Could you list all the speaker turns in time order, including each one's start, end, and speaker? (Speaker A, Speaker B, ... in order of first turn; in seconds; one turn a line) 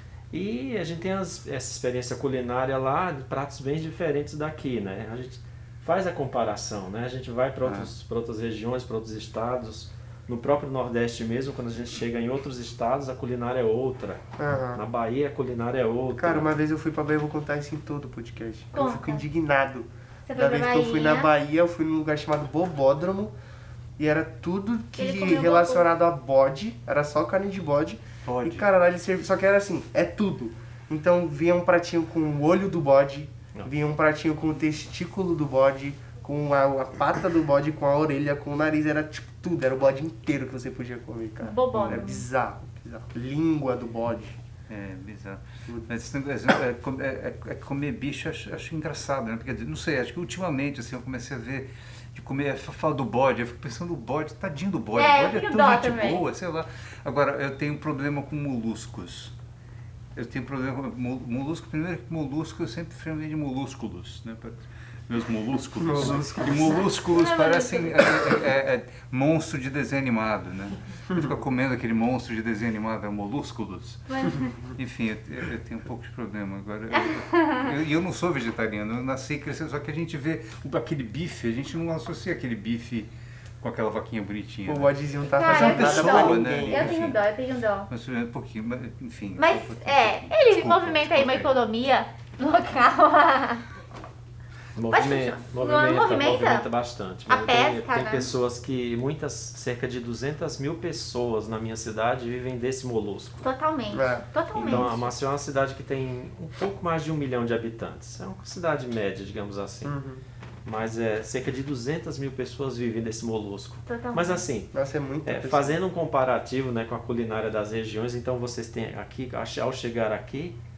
Speaker A: 0.3-14.2
Speaker B: 14.4-14.8
Speaker A: 14.7-16.5
Speaker B: 16.2-23.3
Speaker C: 18.7-19.2
Speaker C: 20.3-21.3
Speaker B: 24.0-44.4
Speaker C: 24.9-25.9
Speaker D: 28.2-28.7
Speaker C: 41.4-42.2
Speaker D: 41.7-42.1
Speaker D: 44.7-59.3
Speaker C: 54.9-56.2
Speaker D: 60.1-74.1
Speaker B: 65.8-66.9
Speaker C: 66.5-68.5
Speaker B: 71.1-71.4
Speaker C: 74.1-74.6
Speaker D: 74.7-83.1
Speaker C: 77.0-77.7
Speaker D: 83.6-87.2
Speaker B: 84.7-87.1
Speaker C: 85.3-87.9
Speaker D: 87.9-91.5
Speaker C: 89.4-93.6
Speaker A: 94.8-103.5
Speaker C: 94.9-96.7
Speaker C: 97.3-98.3
Speaker C: 103.4-105.0
Speaker B: 103.9-104.9
Speaker A: 104.5-109.9
Speaker B: 109.8-110.2
Speaker A: 110.7-114.7
Speaker C: 113.8-114.4
Speaker B: 114.7-115.8
Speaker A: 115.2-120.6